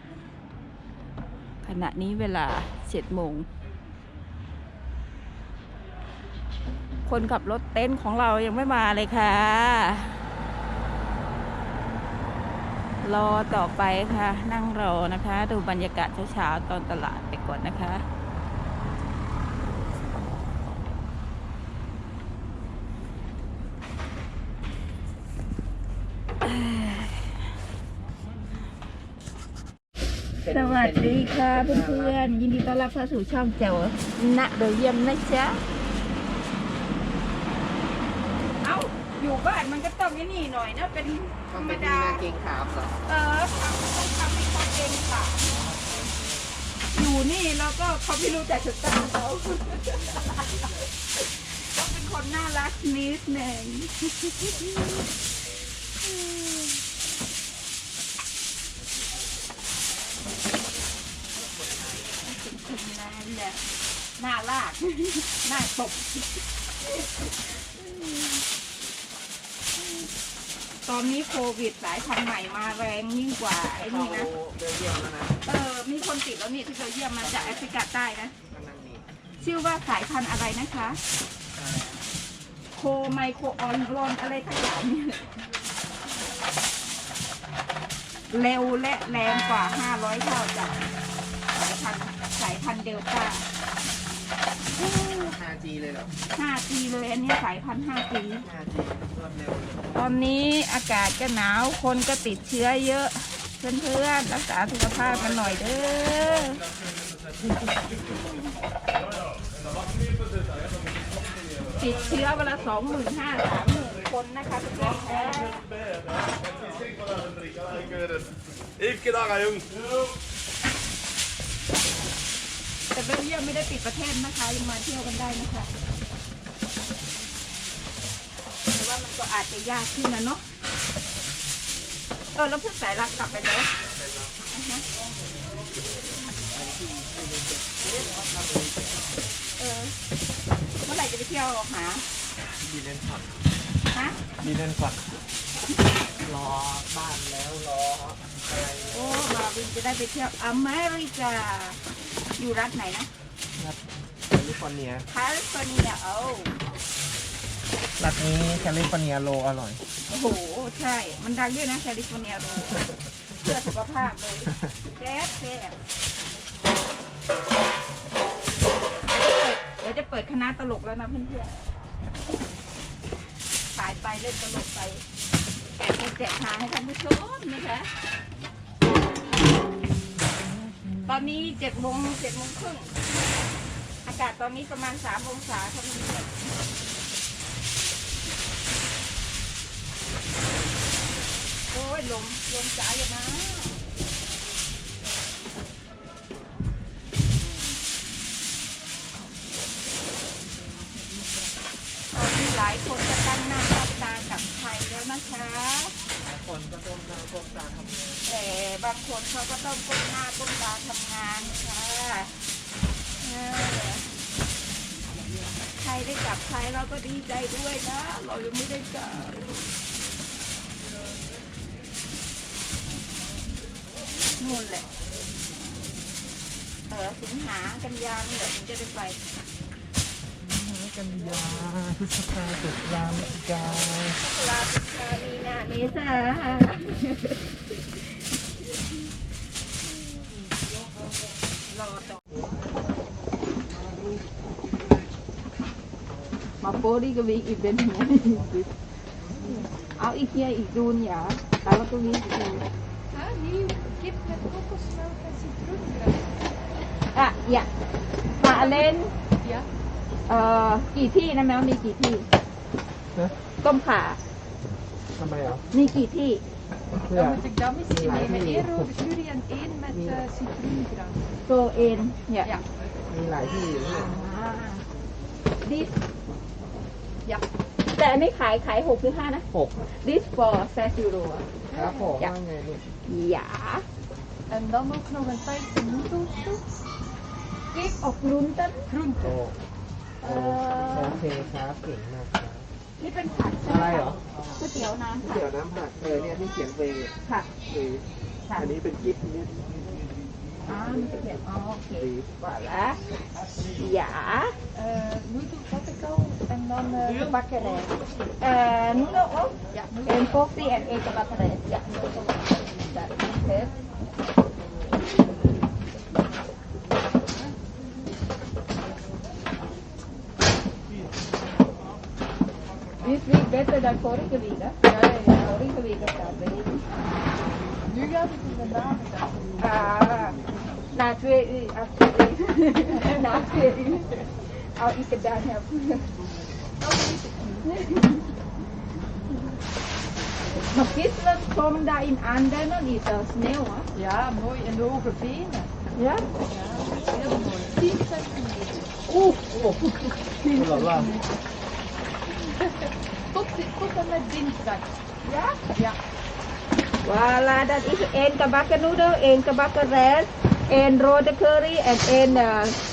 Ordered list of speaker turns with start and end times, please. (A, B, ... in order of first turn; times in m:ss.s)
0:01.6-0:03.5 A
0:07.1-0:10.2 A
0:13.0-0:18.0 A
0:26.4-0:27.3 A
0:30.4-0:32.2 B
0:30.5-0:35.6 A
0:38.6-0:42.3 A
0:41.5-0:42.9 B
0:43.0-0:45.4 A
0:45.4-0:46.1 B
0:46.9-0:50.6 A
0:51.1-0:54.7 A
1:02.2-1:03.6 A
1:04.2-1:07.1 A
1:07.6-1:08.4 A
1:10.8-1:14.3 A
1:13.8-1:15.4 B
1:15.4-1:18.3 A
1:17.2-1:17.6 B
1:18.5-1:19.0 B
1:19.4-1:21.0 A
1:21.5-1:22.0 B
1:22.8-1:25.3 A
1:28.3-1:30.9 A
1:31.5-1:33.4 A
1:34.7-1:36.1 B
1:36.3-1:38.4 A
1:38.4-1:40.0 B
1:39.9-1:46.6 A
1:51.8-1:55.6 A
2:02.9-2:05.7 A
2:08.7-2:10.4 A
2:12.3-2:13.7 A
2:13.9-2:14.3 B
2:14.5-2:14.8 A
2:16.5-2:19.1 B
2:19.6-2:19.9 A
2:20.8-2:22.0 A
2:22.6-2:23.2 B
2:23.9-2:24.2 A
2:24.4-2:25.0 B
2:26.2-2:29.2 B
2:28.9-2:31.8 A
2:32.4-2:33.1 A
2:34.3-2:35.0 B
2:35.1-2:36.5 A
2:38.0-2:39.8 B
2:40.1-2:42.8 A
2:43.4-2:45.7 A
2:49.1-2:51.6 A
2:53.7-2:55.0 A
2:55.8-2:57.9 A
3:01.0-3:02.9 A
3:04.0-3:06.5 A
3:11.7-3:13.8 A
3:22.1-3:25.9 A
3:26.2-3:28.3 B
3:28.2-3:32.3 A
3:33.2-3:34.0 A
3:35.8-3:39.5 A
3:44.4-3:44.8 A
3:46.9-3:49.2 A
3:50.4-3:54.2 B
3:54.2-3:57.4 A
4:01.7-4:02.2 A
4:06.6-4:08.4 A
4:09.4-4:09.7 C
4:10.0-4:12.6 A
4:13.1-4:16.4 C
4:17.1-4:17.7 A
4:18.4-4:19.1 A
4:18.4-4:19.7 C
4:20.3-4:22.3 A
4:23.6-4:24.2 A
4:25.2-4:25.6 B
4:25.7-4:26.4 A
4:27.0-4:28.9 B
4:27.1-4:31.2 C
4:29.9-4:30.2 B
4:31.4-4:32.5 A
4:33.1-4:34.1 B
4:33.9-4:34.8 A
4:35.6-4:35.9 A
4:37.9-4:41.5 A
4:39.5-4:39.8 B
4:41.7-4:42.2 C
4:41.7-4:42.9 B
4:43.0-4:43.8 A
4:44.5-4:46.6 C
4:47.7-4:48.8 A
4:48.9-4:49.4 C
4:49.2-4:49.6 B
4:50.2-4:51.2 A
4:50.2-4:52.7 B
4:53.0-4:55.3 A
4:53.6-4:54.5 B
4:55.2-4:57.1 B
4:57.6-4:59.7 B
4:58.4-4:58.8 A
5:00.7-5:03.0 A
5:00.7-5:01.4 B
5:01.9-5:02.3 B
5:03.8-5:04.5 A
5:04.7-5:07.9 C
5:07.1-5:13.7 A
5:09.7-5:10.4 C
5:23.0-5:26.9 A
5:24.9-5:25.5 C
5:27.8-5:29.6 C
5:29.6-5:30.4 A
5:30.9-5:34.2 A
5:33.0-5:33.5 C
5:34.8-5:36.1 A
5:36.8-5:37.7 C
5:37.6-5:38.3 A
5:40.7-5:43.9 A
5:44.0-5:45.7 C
5:46.0-5:46.2 A
5:46.4-5:49.0 C
5:49.1-5:51.1 B
5:50.5-5:51.0 A
5:52.3-5:55.0 C
5:55.2-5:55.6 A
5:55.7-5:56.0 C
5:57.0-6:02.8 A